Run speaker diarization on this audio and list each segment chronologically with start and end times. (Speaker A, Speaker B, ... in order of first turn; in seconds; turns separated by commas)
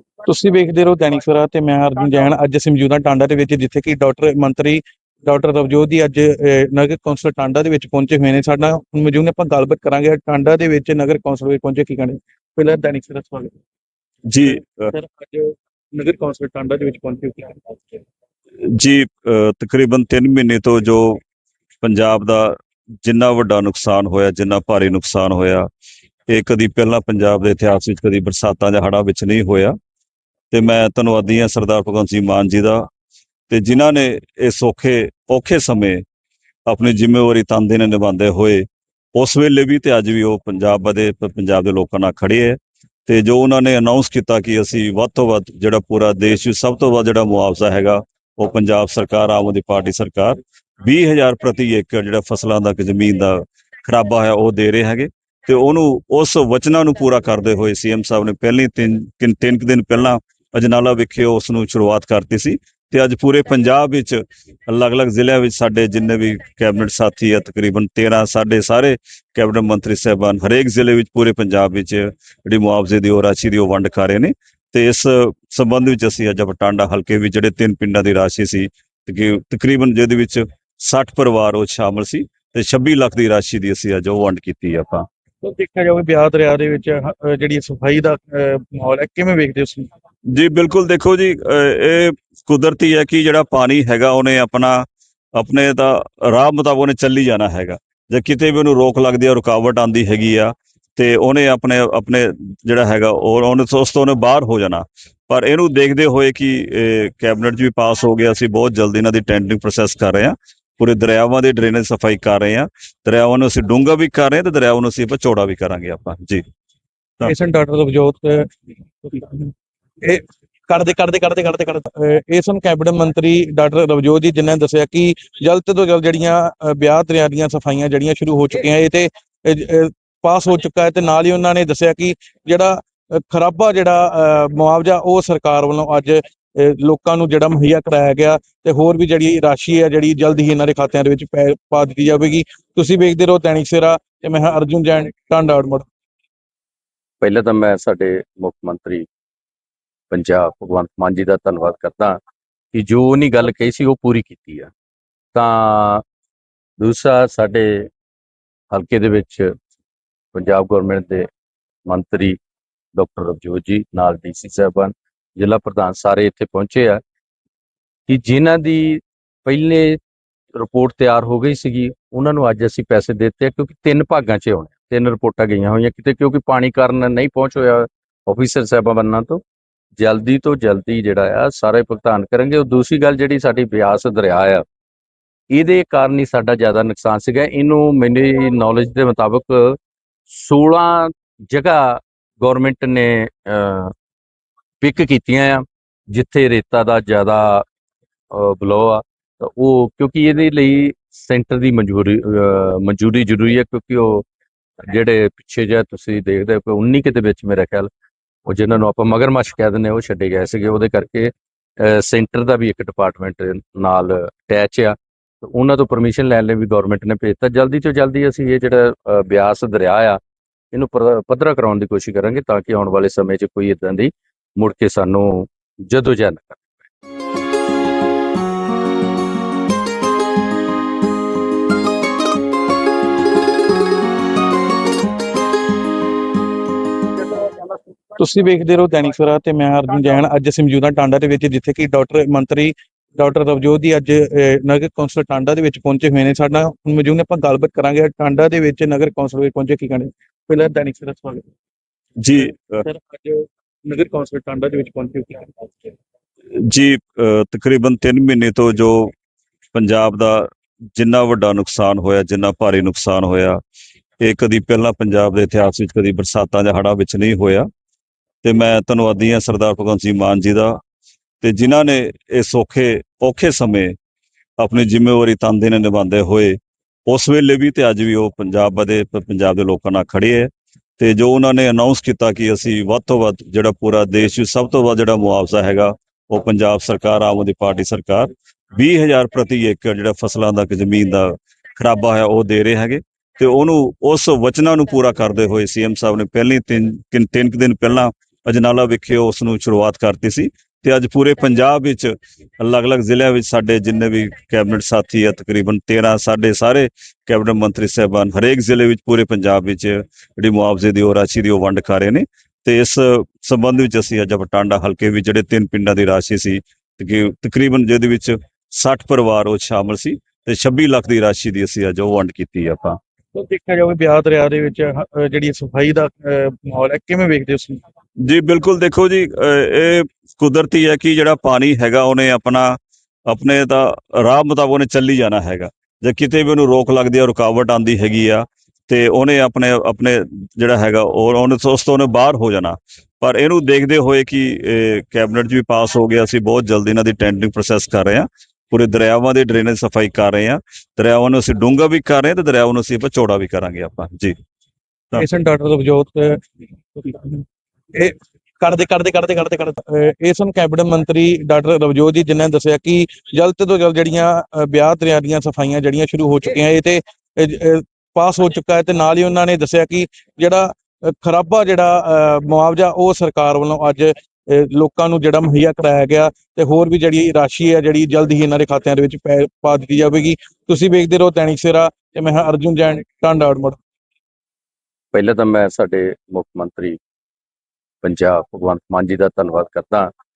Speaker A: 0.2-13.5, Speaker B: 14.3-14.9, Speaker A: 14.9-17.8, Speaker B: 18.7-21.2, Speaker B: 21.8-25.7, Speaker B: 26.3-29.7, Speaker B: 30.5-32.9, Speaker B: 33.5-36.0, Speaker B: 36.7-85.0, Speaker A: 85.4-89.9, Speaker B: 90.3-94.8, Speaker B: 95.3-116.4, Speaker A: 117.2-118.5, Speaker A: 119.0-119.5, Speaker A: 120.0-145.9, Speaker C: 147.2-149.1, Speaker C: 150.1-152.2, Speaker C: 152.7-154.7, Speaker C: 155.3-156.0, Speaker C: 156.8-157.9, Speaker C: 158.7-159.5, Speaker C: 160.3-161.3, Speaker C: 161.8-162.4, Speaker C: 162.9-167.0, Speaker C: 168.1-170.0, Speaker C: 170.6-179.4, Speaker C: 180.0-184.6, Speaker C: 185.5-189.8, Speaker C: 190.3-193.9, Speaker C: 194.8-197.6, Speaker C: 198.3-204.2, Speaker C: 204.9-207.9, Speaker C: 208.5-220.2, Speaker C: 220.7-226.8, Speaker A: 237.4-251.5, Speaker B: 252.2-252.8, Speaker A: 252.8-255.9, Speaker B: 256.6-259.1, Speaker B: 259.7-263.6, Speaker B: 264.2-267.6, Speaker B: 268.4-270.8, Speaker B: 271.4-273.9, Speaker B: 274.6-276.6, Speaker B: 277.1-323.0, Speaker A: 323.3-327.8, Speaker B: 328.2-332.8, Speaker B: 333.3-354.3, Speaker A: 355.1-356.4, Speaker A: 356.9-357.4, Speaker A: 357.9-383.8, Speaker C: 385.1-387.0, Speaker C: 388.0-390.1